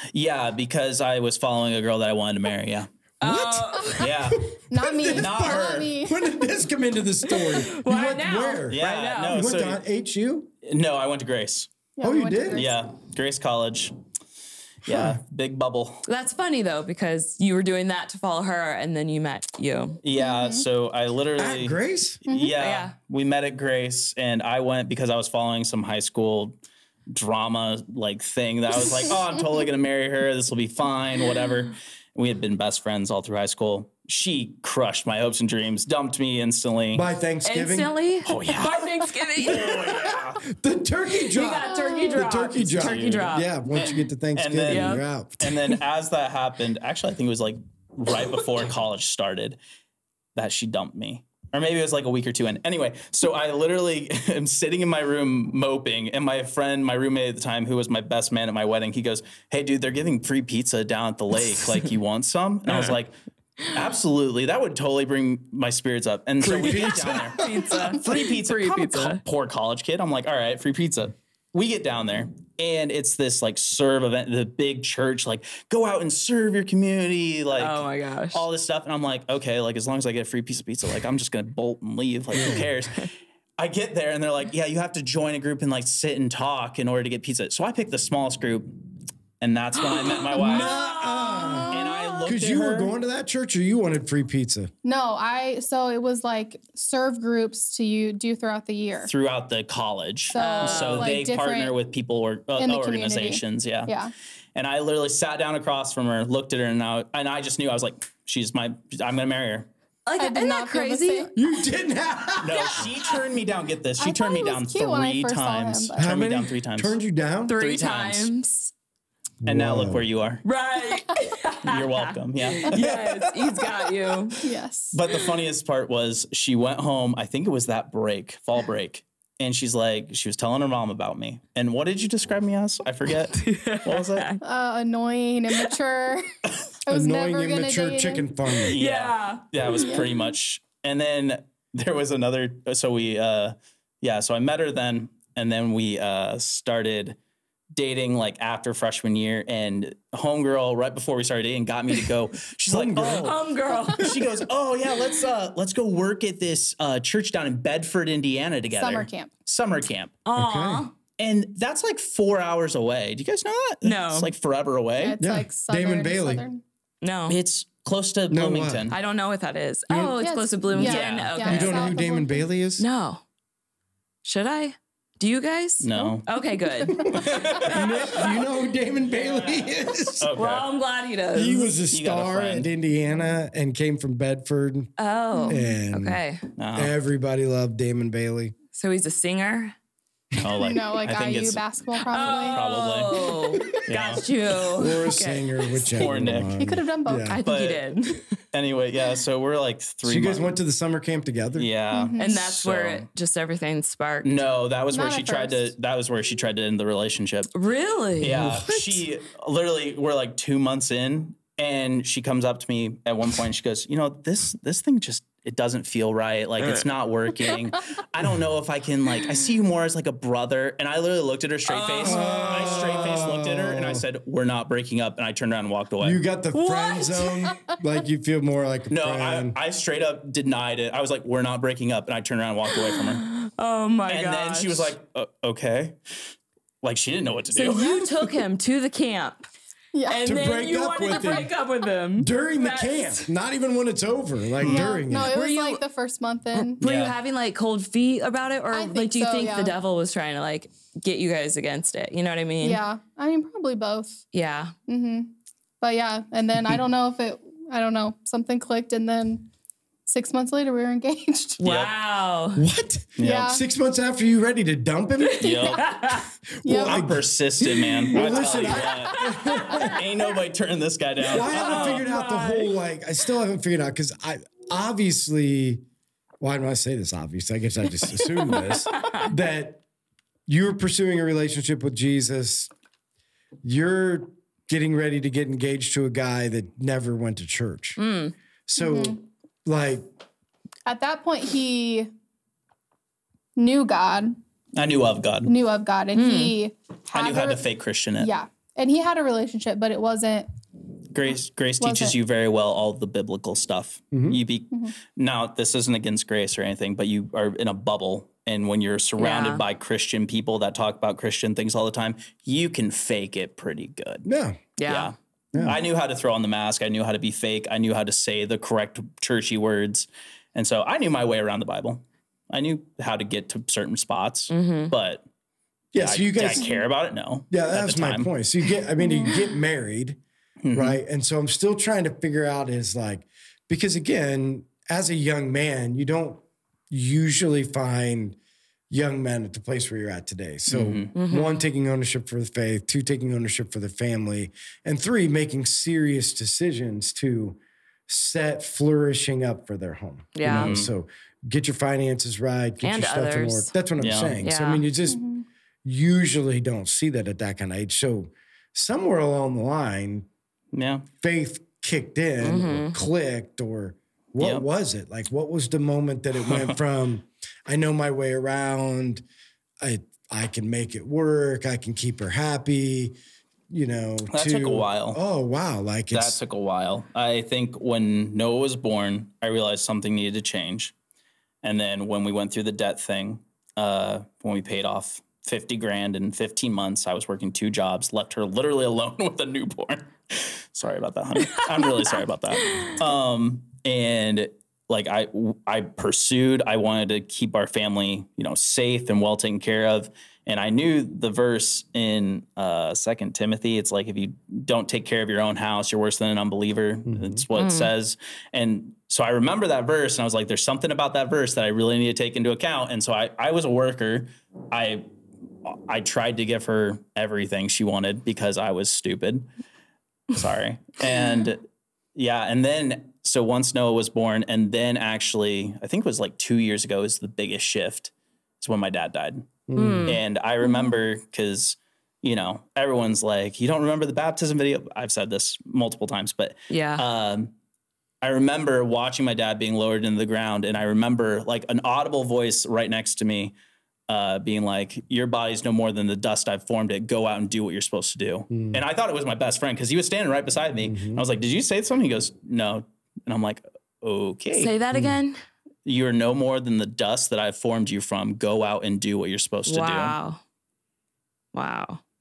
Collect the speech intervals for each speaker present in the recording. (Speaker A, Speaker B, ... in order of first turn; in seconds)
Speaker A: 0.1-2.9, 4.0-4.5, 5.1-5.9, 8.7-9.8, 10.6-11.7, 12.5-13.9, 14.8-16.0, 20.0-26.6, 27.1-37.1, 38.2-40.4, 42.6-49.6, 50.4-63.1, 63.7-88.7, 89.4-90.7, 91.7-92.9, 99.0-104.0, 104.5-109.7, 112.4-117.0, 117.6-118.3, 119.4-120.4, 121.6-123.9, 124.9-134.2, 138.6-147.2, 147.7-153.4, 153.9-160.1, 161.2-165.2, 167.3-168.9, 170.8-171.3, 175.8-176.3, 177.1-178.3, 180.2-180.7, 181.9-182.7, 186.6-186.9, 190.4-191.6, 192.2-193.2, 193.8-194.2, 195.9-196.6, 197.4-197.9, 198.5-200.6, 201.5-203.1, 204.2-207.5, 208.2-226.2, 228.9-233.3, 234.1-236.0, 236.8-238.0, 244.6-244.9, 246.8-247.1, 261.6-261.9, 263.2-263.6, 265.4-265.9, 266.7-272.1, 294.8-295.5, 297.1-298.3, 301.1-314.2, 314.8-325.2, 325.9-328.3, 330.6-331.0, 340.7-341.1, 350.5-350.9, 354.0-354.4, 360.7-361.1, 366.4-366.8, 374.3-375.2, 376.1-380.9, 381.6-415.1, 415.6-419.4, 420.3-421.6, 422.1-429.5, 430.0-437.5, 438.2-443.5, 444.1-454.7, 455.9-460.1
Speaker B: 3.2-4.1, 7.3-9.4, 16.1-20.0, 22.6-22.9, 37.4-40.1, 41.3-43.5, 44.7-45.0, 66.7-69.2, 77.5-78.4, 82.5-83.0, 90.0-92.3, 100.3-101.2, 110.0-111.3, 117.5-118.7, 120.4-124.4, 133.3-134.4, 138.8-139.5, 153.1-154.1, 160.2-160.9, 163.8-164.3, 167.0-167.4, 168.9-171.9, 172.8-173.2, 174.2-178.2, 180.3-181.7, 185.0-186.4, 188.7-189.7, 192.1-195.9, 197.2-198.3, 202.2-204.3, 207.5-209.0, 221.7-223.2, 226.5-227.5, 232.7-234.9, 237.5-239.5, 240.1-243.3, 245.1-245.8, 246.5-252.8, 254.3-254.7, 261.6-262.6, 265.8-266.2, 267.7-268.1, 269.2-269.8, 271.4-272.7, 278.9-279.3, 288.0-288.3, 296.1-296.6, 309.2-309.6, 314.8-315.1, 324.5-324.9, 341.1-341.6, 350.3-350.7, 352.8-353.7, 354.4-354.8, 362.4-362.9, 407.5-407.9, 429.8-430.2, 436.7-437.0, 454.5-455.4, 459.7-460.4, 461.5-462.0
Speaker C: 3.2-10.5, 12.0-12.6, 14.8-15.2, 21.4-22.2, 36.9-37.9, 39.5-45.6, 66.4-67.9, 82.3-82.7, 90.3-94.7, 111.3-112.9, 116.0-117.5, 119.4-120.1, 136.9-138.8, 152.7-153.3, 160.3-160.9, 165.2-166.4, 168.3-168.9, 169.9-170.2, 171.4-172.8, 177.7-180.3, 181.3-184.9, 185.5-186.2, 186.7-188.5, 194.7-197.4, 200.0-201.7, 222.0-224.0, 226.0-229.6, 240.2-241.5, 242.2-245.4, 262.6-265.8, 266.6-267.2, 268.1-270.0, 271.2-275.8, 276.4-279.8, 280.5-282.7, 283.6-288.0, 288.7-290.1, 304.1-304.4, 314.2-314.6, 315.5-315.8, 325.9-326.8, 327.5-330.2, 330.7-338.4, 338.9-355.2, 355.8-360.3, 361.2-369.2, 369.8-373.1, 373.7-376.4, 407.1-407.4, 429.7-430.2, 448.5-448.8, 450.8-451.2
Speaker D: 4.7-6.4, 12.0-12.8, 20.2-20.6, 22.3-22.6, 41.6-42.2, 94.8-99.1, 100.3-101.8, 102.6-104.1, 110.2-111.3, 114.0-116.1, 124.4-125.0, 134.4-136.2, 136.8-138.2, 139.6-140.1, 158.7-159.3, 165.0-166.6, 170.2-172.5, 175.9-177.2, 185.3-185.6, 190.5-193.8, 196.5-197.4, 201.9-202.3, 204.9-205.7, 237.7-238.0, 239.9-240.2, 244.6-246.8, 248.7-249.8, 252.6-254.2, 254.9-259.5, 260.1-261.6, 263.2-263.6, 265.4-265.8, 266.6-267.1, 288.8-289.2, 290.9-292.1, 293.6-294.4, 295.4-297.6, 298.2-300.5, 301.8-302.1, 329.0-329.5, 355.1-355.4, 430.6-430.9